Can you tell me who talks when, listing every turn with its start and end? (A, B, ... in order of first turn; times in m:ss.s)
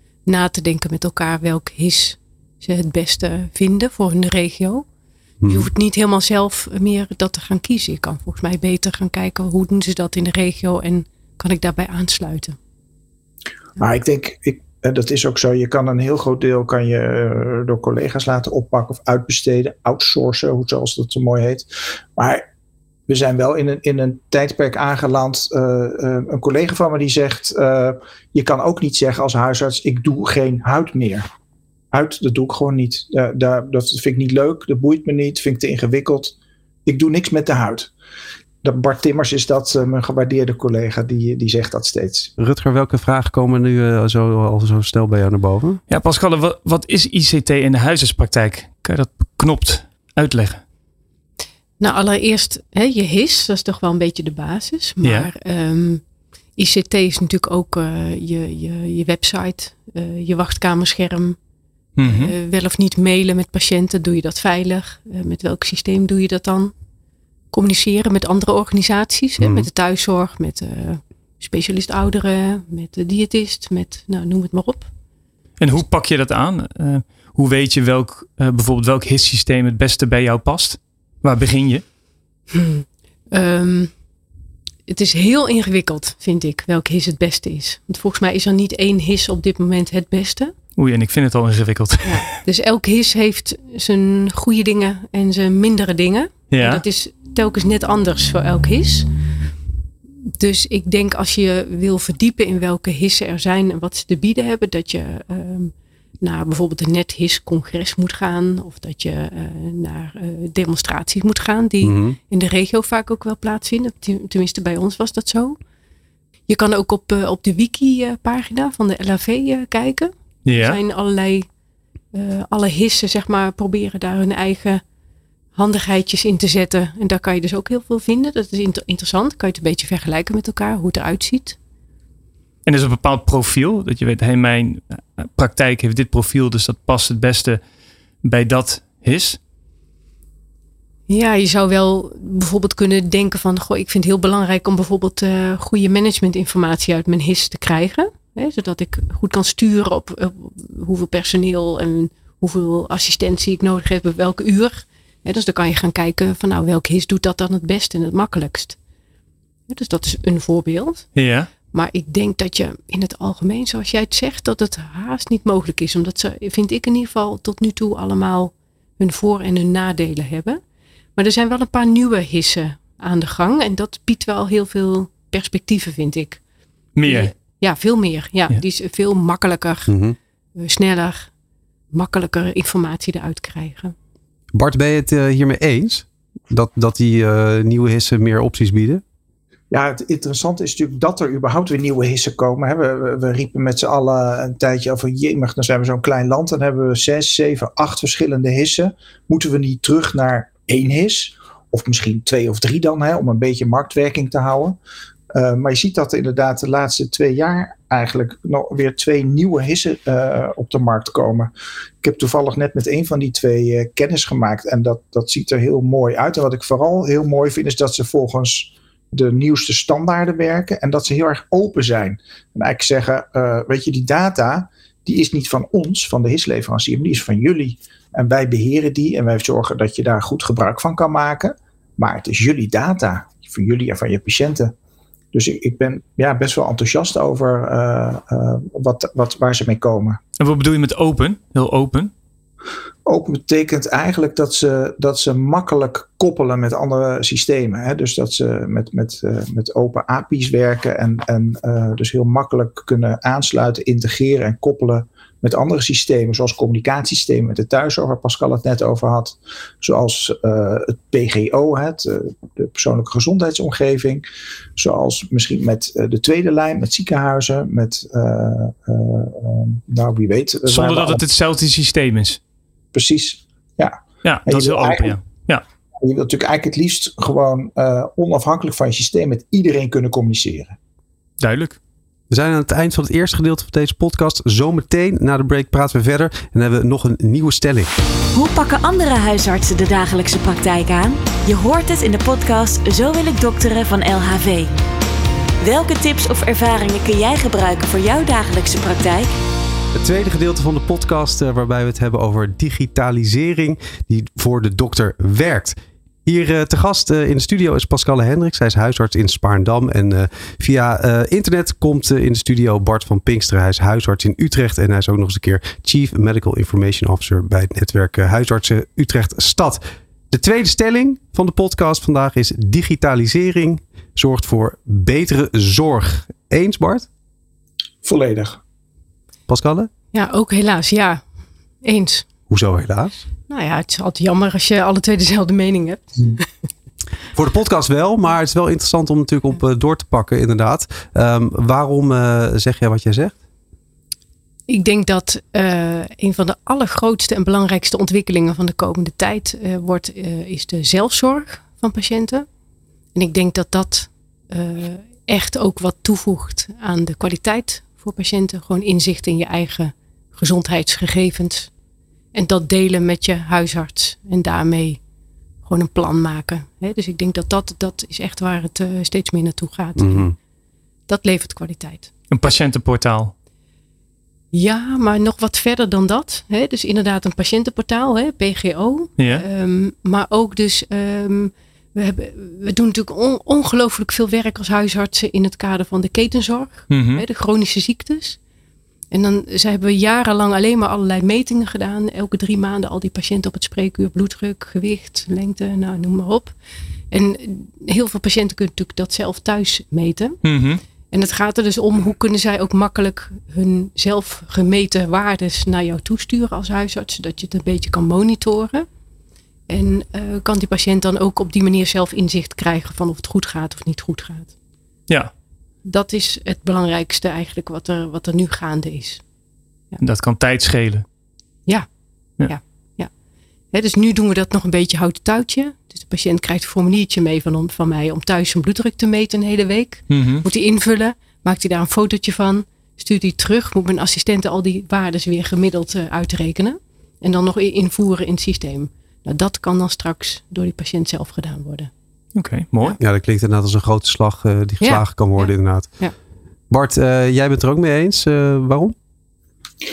0:00.2-0:04.8 A
0:05.4-0:05.7 B
0:05.4-0:12.6 A
0:13.8-0:22.4 C
0:23.1-0:31.2 C
0:31.9-0:36.3 C
0:36.8-0:37.9 C
0:38.6-0:42.3 C
0:42.4-0:45.8 B
0:45.9-0:50.6 D
0:51.8-0:56.0 A
0:55.0-0:55.3 D
0:56.6-1:01.4 A
1:02.0-1:02.3 D
1:02.0-1:06.7 A
1:07.5-1:14.9 A
1:09.4-1:09.7 B
1:15.6-1:21.8 D
1:22.5-1:23.9 A
1:24.9-1:30.5 A
1:30.8-1:32.2 D
1:32.0-1:39.1 A
1:36.5-1:36.8 D
1:40.4-1:55.6 A
1:51.8-1:52.2 B
1:56.5-2:01.5 A
2:00.5-2:00.8 D
2:02.1-2:04.8 A
2:05.6-2:11.6 A
2:12.7-2:17.6 D
2:18.2-2:19.4 D
2:21.1-2:38.8 A
2:39.7-2:41.1 A
2:41.2-2:41.5 D
2:41.7-2:50.6 A
2:51.2-2:56.4 A
2:57.0-2:57.3 D
2:57.0-2:59.9 A
2:59.9-3:00.2 B
3:00.6-3:01.3 A
3:01.9-3:03.9 A
3:04.5-3:09.0 B
3:09.7-3:24.8 C
3:25.3-3:31.5 C
3:32.0-3:54.7 C
3:55.3-4:00.2 C
4:00.4-4:02.1 D
4:03.0-4:24.2 C
4:24.8-4:31.2 C
4:30.7-4:32.4 D
4:32.9-4:35.1 C
4:34.2-4:35.6 D
4:36.0-4:40.8 C
4:41.4-4:41.8 D
4:42.3-4:47.9 B
4:48.3-4:54.7 E
4:55.6-4:59.3 E
4:59.9-5:27.1 B
5:28.0-5:28.6 C
5:29.5-5:29.9 B
5:30.1-5:31.2 A
5:31.8-5:32.2 A
5:32.5-5:33.2 B
5:33.5-5:36.5 A
5:37.3-5:43.4 B
5:44.7-5:52.5 A
5:53.1-6:01.7 A
6:02.3-6:05.0 A
6:05.6-6:10.3 A
6:10.0-6:10.4 B
6:11.1-6:12.5 A
6:12.3-6:13.3 D
6:14.5-6:28.4 A
6:19.2-6:19.4 D
6:26.9-6:27.2 D
6:29.1-6:36.6 A
6:37.1-6:40.4 A
6:40.4-6:40.8 D
6:41.1-6:48.9 A
6:49.7-6:54.5 A
6:55.8-6:59.2 A
7:00.0-7:01.0 D
7:02.5-7:03.1 A
7:03.7-7:21.9 A
7:10.1-7:10.4 D
7:22.4-7:23.0 D
7:23.0-7:25.9 B
7:24.8-7:26.1 A
7:26.7-7:29.0 B